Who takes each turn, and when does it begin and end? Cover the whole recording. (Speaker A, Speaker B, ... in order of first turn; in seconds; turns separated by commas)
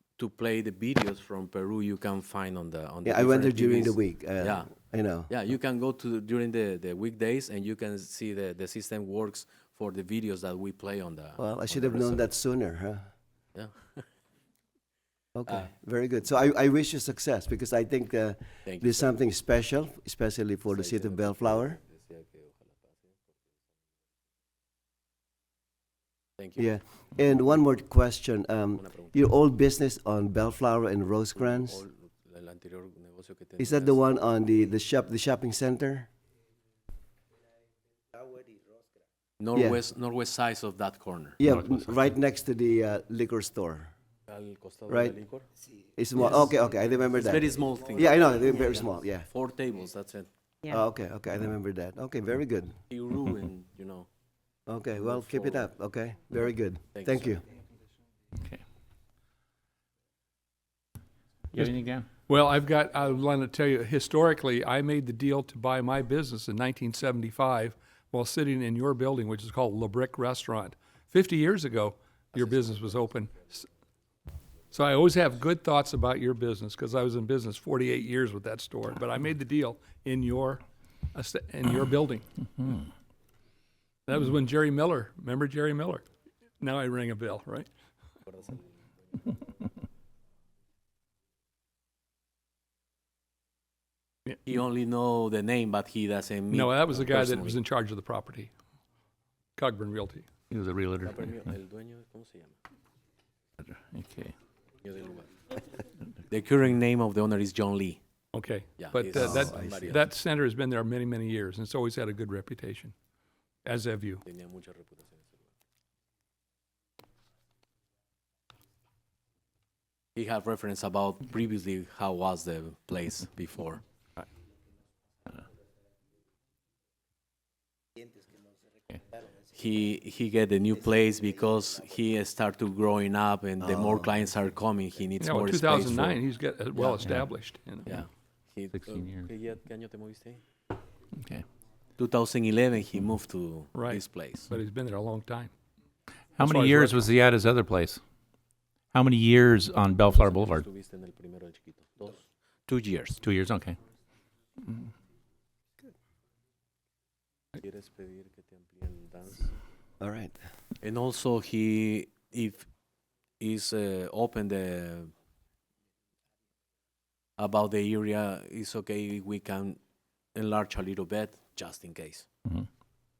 Speaker A: 0.2-4.7, Speaker B: 3.0-5.3, Speaker A: 5.3-12.3, Speaker B: 11.4-13.1, Speaker A: 13.6-14.1, Speaker B: 15.3-21.8, Speaker A: 18.6-19.1, Speaker A: 20.7-23.4, Speaker A: 26.4-26.8, Speaker B: 26.6-31.8, Speaker A: 28.8-29.1, Speaker A: 31.4-34.0, Speaker B: 33.6-36.1, Speaker A: 39.4-41.4, Speaker B: 39.5-39.8, Speaker B: 41.4-43.9, Speaker C: 41.4-42.1, Speaker A: 44.3-45.5, Speaker B: 44.9-45.1, Speaker B: 46.0-49.3, Speaker A: 46.2-46.5, Speaker A: 47.1-50.3, Speaker B: 50.7-52.8, Speaker A: 52.9-54.1, Speaker B: 54.7-57.4, Speaker A: 55.0-55.7, Speaker A: 56.9-57.4, Speaker C: 61.5-62.1, Speaker D: 62.3-73.7, Speaker A: 72.4-73.0, Speaker D: 74.7-80.6, Speaker D: 81.1-82.8, Speaker D: 84.1-86.0, Speaker D: 86.6-87.7, Speaker A: 88.3-88.7, Speaker A: 94.5-97.6, Speaker D: 96.5-98.5, Speaker D: 99.6-100.3, Speaker C: 100.5-101.3, Speaker A: 101.0-102.6, Speaker C: 103.6-104.3, Speaker A: 104.8-105.6, Speaker A: 106.3-108.0, Speaker D: 108.3-112.9, Speaker A: 108.8-110.1, Speaker B: 109.2-109.8, Speaker D: 113.7-114.2, Speaker A: 114.2-115.4, Speaker A: 120.2-123.8, Speaker A: 129.5-136.2, Speaker B: 133.6-134.2, Speaker D: 135.2-138.0, Speaker A: 136.8-137.0, Speaker C: 137.0-137.3, Speaker A: 137.9-140.4, Speaker C: 138.7-139.3, Speaker C: 141.2-141.4, Speaker A: 142.0-144.5, Speaker D: 143.7-145.5, Speaker C: 146.4-148.0, Speaker D: 146.4-147.1, Speaker C: 148.9-150.7, Speaker A: 150.0-153.2, Speaker C: 153.2-153.8, Speaker A: 157.6-159.6, Speaker B: 160.0-160.3, Speaker A: 160.8-162.7, Speaker A: 163.4-165.1, Speaker A: 167.4-169.8, Speaker A: 170.3-172.2